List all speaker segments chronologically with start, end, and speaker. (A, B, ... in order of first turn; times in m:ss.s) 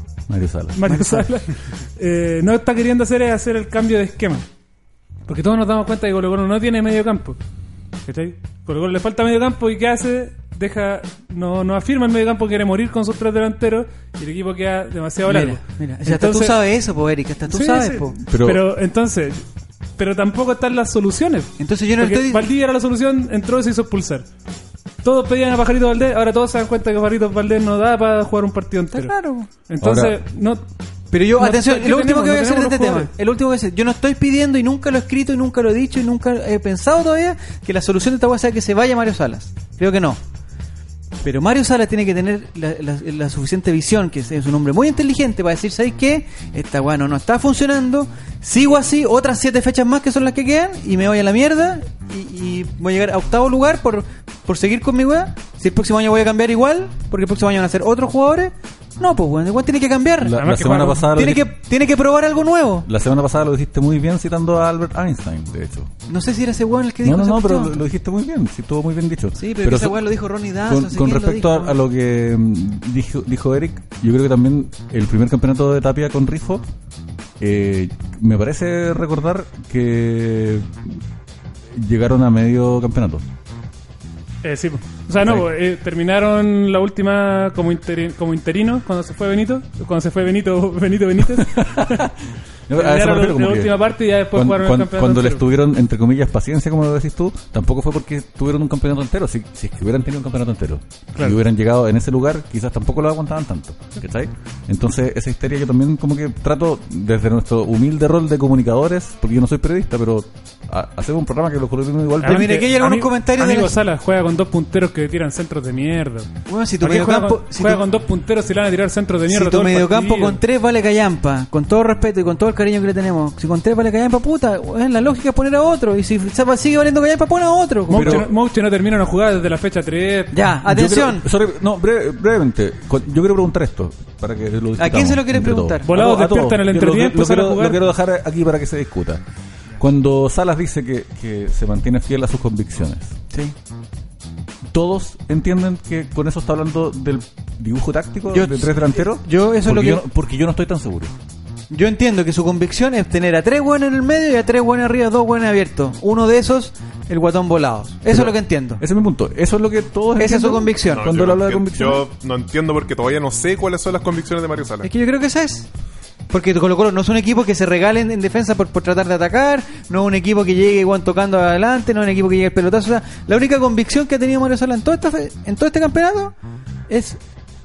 0:00.3-0:00.8 A
0:00.8-0:04.4 B
0:00.8-0:01.3 C
0:05.2-0:07.4 B
0:08.0-0:16.6 B
0:15.2-0:18.2 C
0:17.5-0:19.4 B
0:18.3-0:18.6 A
0:20.0-0:24.2 B
0:21.6-0:22.5 C
0:25.0-0:29.1 B
0:28.9-0:29.5 C
0:29.6-0:30.6 B
0:29.8-0:30.2 A
0:31.1-0:40.2 C
0:31.4-0:33.1 B
0:41.2-1:00.4 C
1:00.2-1:01.5 A
1:00.4-1:01.1 B
1:01.1-1:02.9 C
1:02.8-1:05.9 A
1:06.1-1:07.8 C
1:07.0-1:10.1 A
1:09.4-1:11.8 C
1:10.6-1:16.7 A
1:17.4-1:21.0 A
1:21.7-1:23.2 A
1:24.4-1:32.1 B
1:25.2-1:25.5 A
1:31.3-1:33.7 A
1:32.7-1:35.4 B
1:34.3-1:52.6 A
1:52.2-2:00.4 B
1:52.2-1:53.7 C
1:56.5-1:57.8 C
1:59.3-2:08.2 C
2:07.9-2:10.3 B
2:07.9-2:08.3 A
2:10.3-2:11.2 C
2:10.6-2:19.2 A
2:14.8-2:15.9 C
2:15.8-2:17.8 B
2:19.8-2:23.1 A
2:24.7-2:31.1 A
2:28.3-2:30.0 C
2:31.7-2:38.8 C
2:38.1-2:42.1 A
2:40.2-2:41.1 C
2:40.9-2:44.9 D
2:44.8-2:45.7 C
2:46.3-2:56.3 C
2:56.9-2:57.2 C